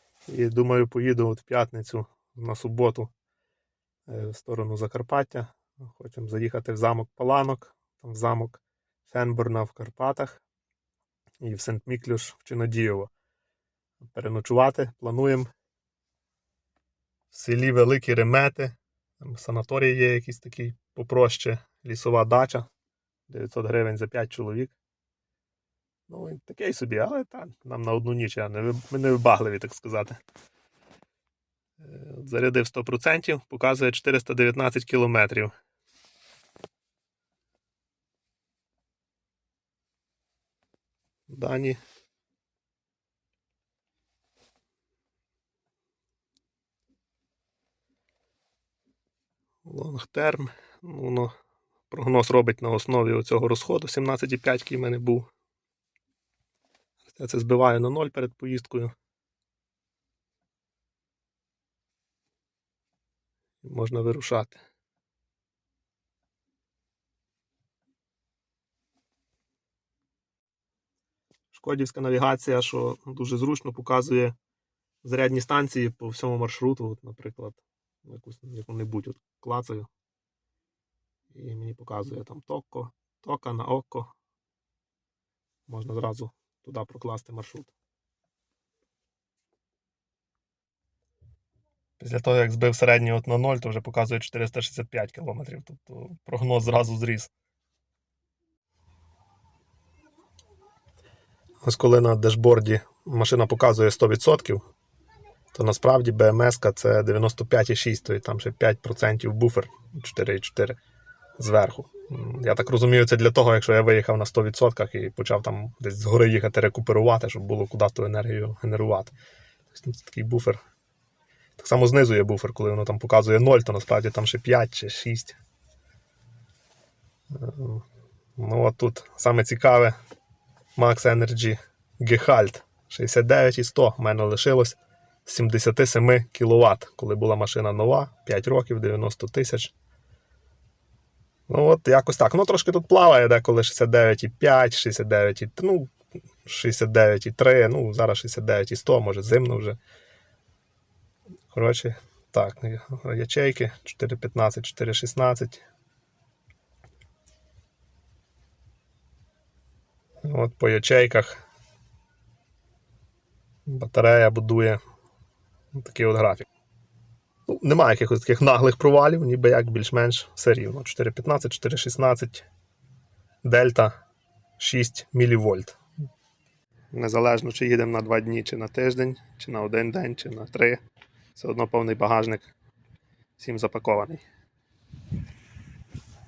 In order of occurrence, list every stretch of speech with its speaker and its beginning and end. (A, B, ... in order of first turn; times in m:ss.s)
0:00.3-0:03.1 A
0:04.1-0:10.4 A
0:11.4-0:13.1 A
0:14.0-0:15.5 A
0:17.3-0:22.7 A
0:23.3-0:24.8 A
0:26.1-0:30.2 A
0:31.8-0:35.5 A
0:41.3-0:41.8 A
0:49.6-0:51.3 A
0:51.9-0:55.3 A
0:57.0-0:58.9 A
1:03.6-1:04.6 A
1:11.5-1:14.4 A
1:15.0-1:19.9 A
1:21.3-1:24.1 A
1:25.7-1:27.7 A
1:32.0-1:37.3 A
1:41.6-1:44.6 A
1:45.5-1:50.8 A
1:51.4-1:59.1 A
1:59.7-2:00.6 A
2:01.6-2:05.4 A
2:07.3-2:07.8 A
2:08.4-2:10.0 A
2:10.8-2:19.7 A
2:21.5-2:25.9 A
2:26.4-2:29.8 A
2:31.5-2:35.6 A
2:40.2-2:41.4 A
2:43.7-2:44.8 A
2:45.7-2:46.5 A
2:47.5-2:52.5 A
2:53.4-2:54.0 A
2:54.6-2:55.8 A
2:56.9-3:00.8 A
3:01.3-3:02.5 A
3:03.4-3:04.2 A